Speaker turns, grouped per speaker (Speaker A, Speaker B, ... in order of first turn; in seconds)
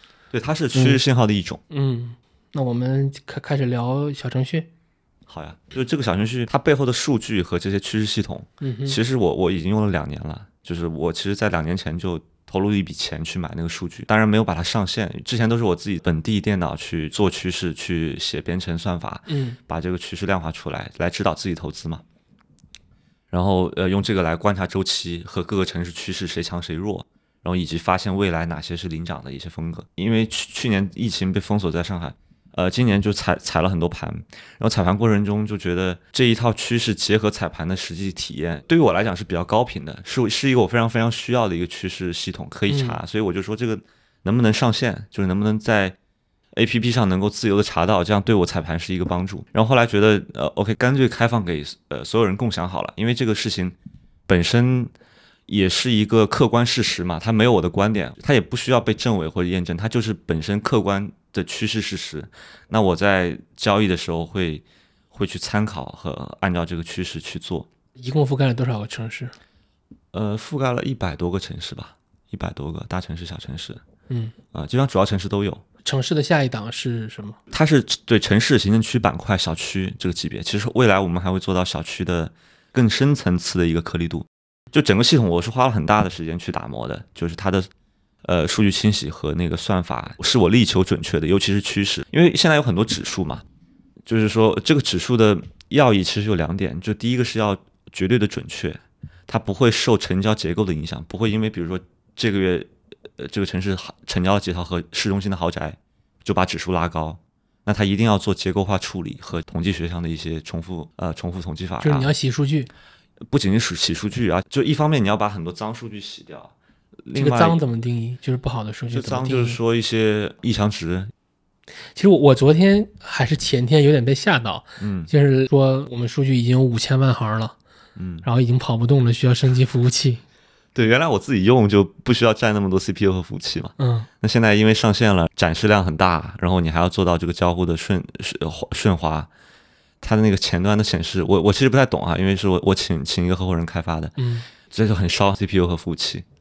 Speaker A: 0.3-1.6, 5.3-22.0, 23.3-46.0, 46.5-53.8, 54.3-54.9, 55.5-67.7, 70.1-73.8, 74.5-75.6, 77.5-87.7, 88.2-93.4, 94.0-112.1, 113.2-116.5, 117.0-117.6, 118.9-121.1, 124.8-125.1, 128.0-128.3, 130.7-139.3, 140.0-146.2
Speaker B: 0.7-1.0, 1.7-4.7, 8.6-9.0, 19.3-19.6, 42.7-43.0, 68.0-69.3, 74.1-74.3, 75.8-77.4, 111.8-112.7, 117.1-119.6, 121.9-127.5, 128.2-130.2, 133.8-134.1, 144.2-144.4